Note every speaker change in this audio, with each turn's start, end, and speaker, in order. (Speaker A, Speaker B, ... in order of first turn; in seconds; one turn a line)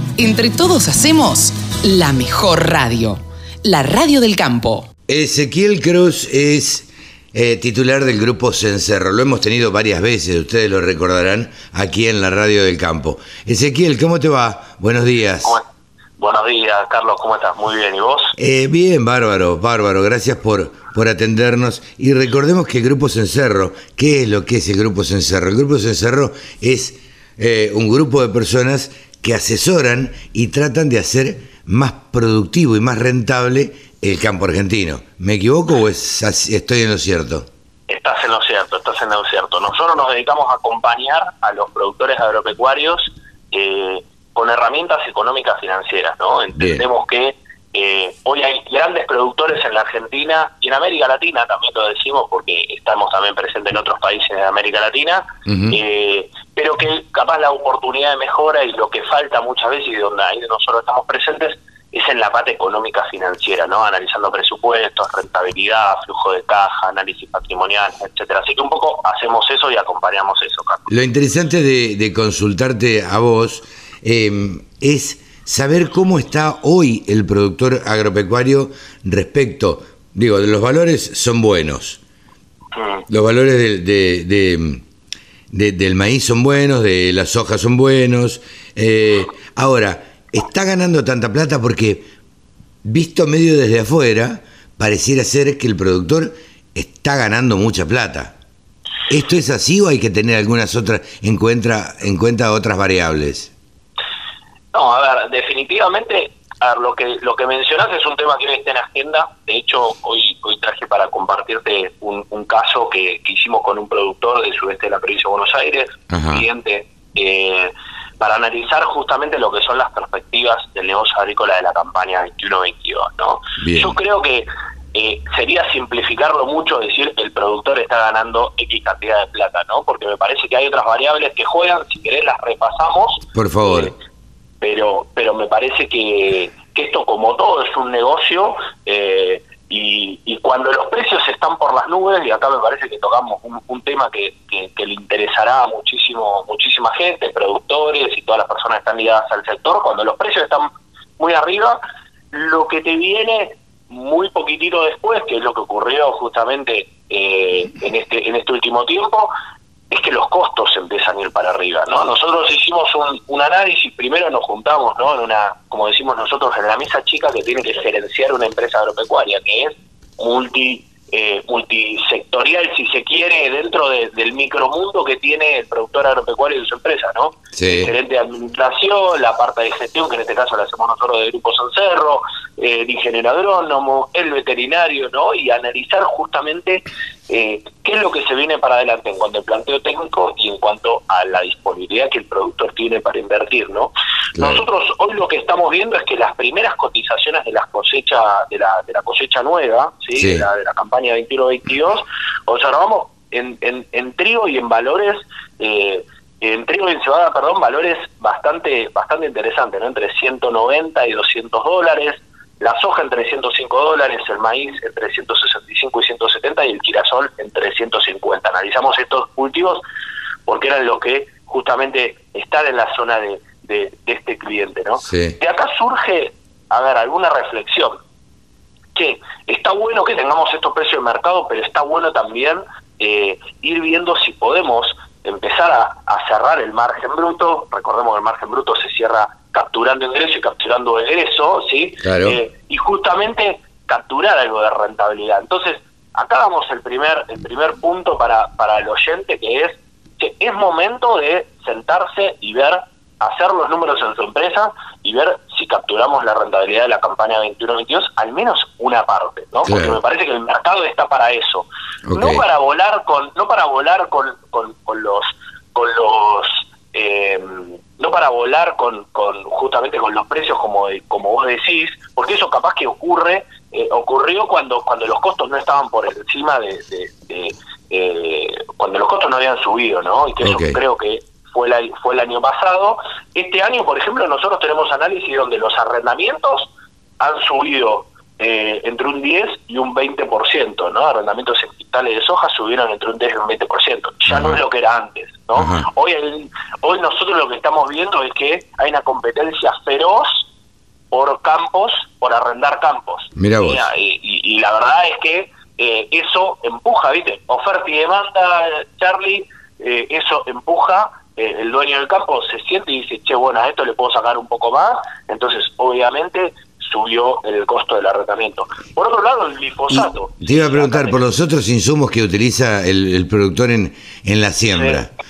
Speaker A: 0.2-4.9
Speaker B: 5.1-15.6
Speaker C: 16.2-18.3
Speaker B: 18.4-37.5
Speaker C: 37.9-70.9
Speaker B: 46.5-46.9
Speaker B: 55.5-55.8
Speaker B: 70.9-82.0
Speaker C: 82.7-83.0
Speaker B: 83.1-84.8
Speaker B: 85.5-92.1
Speaker B: 92.8-98.3
Speaker B: 99.1-103.5
Speaker C: 104.7-133.9
Speaker B: 116.1-116.4
Speaker B: 123.6-124.0
Speaker B: 133.3-133.9
Speaker C: 134.6-151.8
Speaker C: 152.3-159.3
Speaker C: 159.9-219.8
Speaker B: 177.5-177.9
Speaker B: 194.3-194.6
Speaker B: 200.1-200.5
Speaker C: 220.4-228.0
Speaker B: 225.0-225.3
Speaker C: 228.9-300.5
Speaker B: 242.0-242.4
Speaker B: 259.6-260.0
Speaker B: 262.1-262.4
Speaker B: 280.4-280.8
Speaker B: 294.3-294.6
Speaker B: 295.5-295.9
Speaker C: 301.1-321.2
Speaker B: 303.4-303.9
Speaker B: 319.9-325.1
Speaker C: 324.6-325.0